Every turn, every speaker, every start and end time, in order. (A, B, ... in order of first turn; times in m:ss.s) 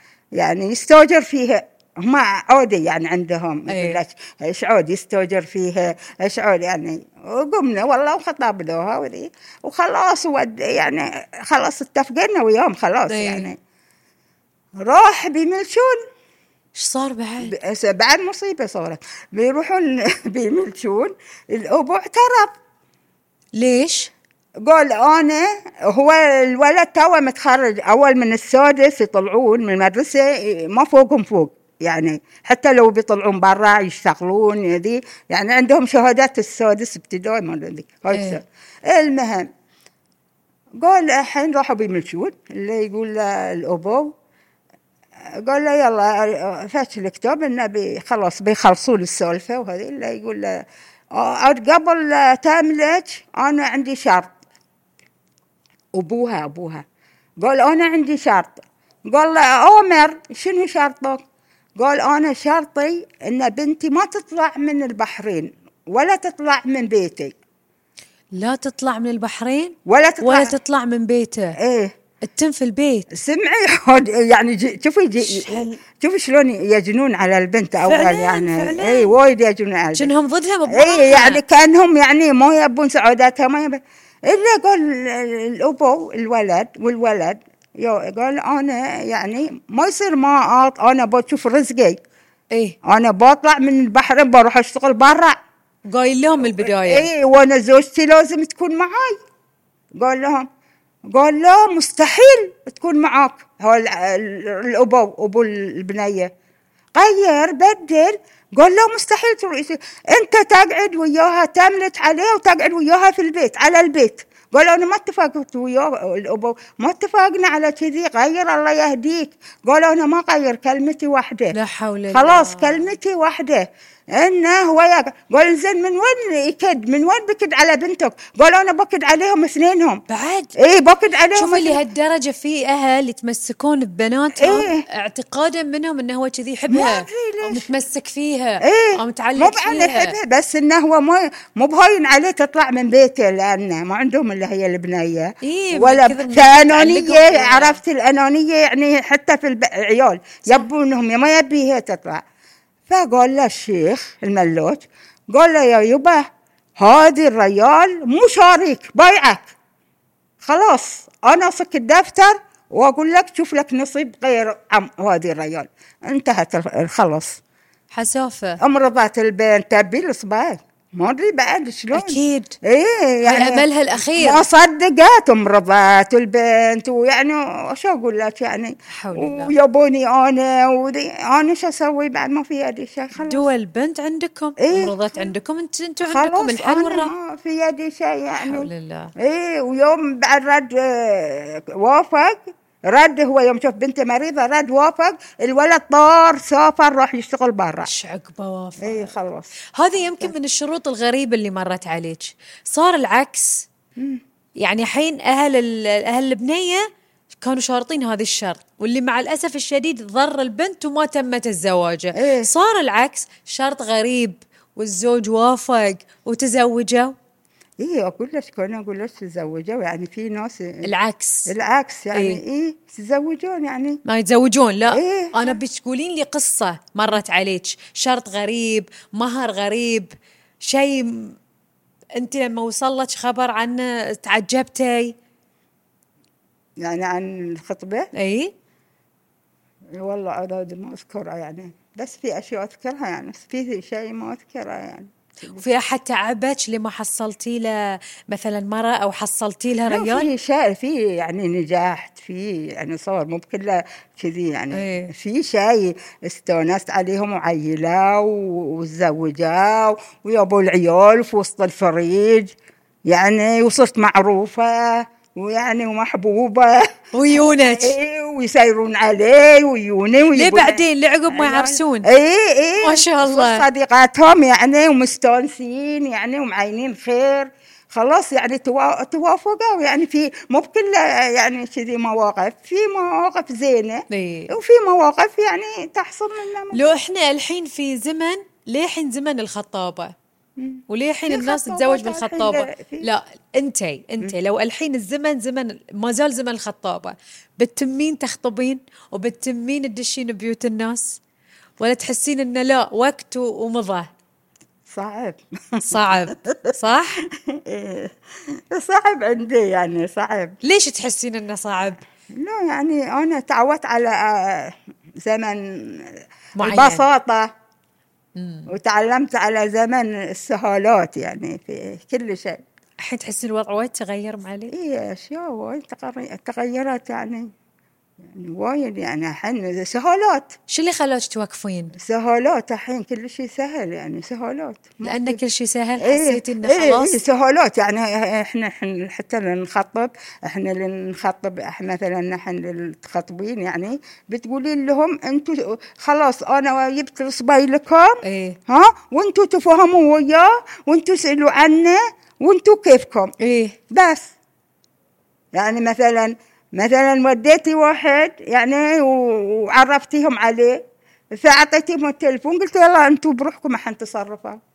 0:00.4-0:13.6 A
0:03.7-0:04.0 B
0:13.1-0:13.5 B
0:14.8-0:16.0 A
0:16.7-0:17.5 B
0:17.4-0:22.5 A
0:23.6-0:24.1 B
0:24.6-0:39.5 A
0:38.1-0:38.4 B
0:40.8-0:44.1 A
0:45.4-0:50.6 A
0:51.1-0:54.3 A
0:55.9-0:56.8 A
0:57.4-1:01.2 A
1:01.8-1:07.3 A
1:08.3-1:11.6 B
1:09.8-1:10.5 A
1:11.6-1:11.9 A
1:12.2-1:13.1 B
1:13.1-1:20.1 A
1:15.2-1:15.8 B
1:17.8-1:19.1 B
1:19.9-1:21.4 B
1:20.7-1:32.0 A
1:32.8-1:35.3 A
1:35.9-1:37.1 B
1:36.4-1:39.2 A
1:40.0-1:40.4 A
1:41.1-1:46.3 A
1:46.9-2:01.5 A
2:01.5-2:02.9 B
2:02.1-2:10.0 A
2:10.1-2:10.5 B
2:10.6-2:11.8 A
2:11.3-2:20.2 B
2:14.4-2:14.8 A
2:16.7-2:17.7 A
2:18.6-2:32.2 A
2:25.4-2:27.8 B
2:32.9-2:36.2 A
2:36.8-2:39.4 A
2:40.4-2:47.4 A
2:47.9-2:48.6 B
2:48.6-3:03.4 A
2:51.9-2:52.6 B
2:53.2-2:54.4 B
2:58.9-2:59.6 B
3:03.2-3:07.1 B
3:04.6-3:05.3 A
3:06.0-3:17.9 A
3:08.4-3:09.1 B
3:17.8-3:19.1 B
3:18.8-3:19.5 A
3:19.8-3:23.7 B
3:24.6-3:37.1 B
3:32.1-3:32.5 A
3:37.8-3:40.8 A
3:40.8-3:41.5 B
3:41.5-3:44.0 A
3:42.1-3:42.4 B
3:44.0-3:50.1 B
3:44.9-3:45.6 A
3:50.6-3:51.4 B
3:52.2-3:55.1 B
3:56.8-3:58.1 A
3:58.1-3:58.5 B
3:59.9-4:05.6 A
4:05.5-4:10.3 B
4:09.9-4:22.5 A
4:14.7-4:15.1 B
4:23.1-4:30.8 A
4:27.1-4:27.9 B
4:30.3-4:32.1 B
4:31.3-4:46.8 A
4:32.8-4:33.6 B
4:44.1-4:44.5 B
4:46.7-4:50.1 B
4:50.6-4:53.0 A
4:50.9-5:01.2 B
5:01.8-5:04.1 B
5:04.9-5:06.8 A
5:05.8-5:07.2 B
5:07.4-5:10.6 A
5:10.6-5:12.0 B
5:12.3-5:17.5 A
5:16.6-5:17.1 B
5:18.4-5:18.7 B
5:18.7-5:22.6 A
5:23.0-5:24.7 B
5:24.7-5:27.5 A
5:28.2-5:30.5 A
5:30.7-5:31.9 B
5:32.0-5:35.4 A
5:35.0-5:37.2 B
5:36.0-5:53.3 A
5:48.2-5:48.6 B
5:53.4-5:53.8 B
5:53.9-5:54.3 A
5:55.5-6:04.6 A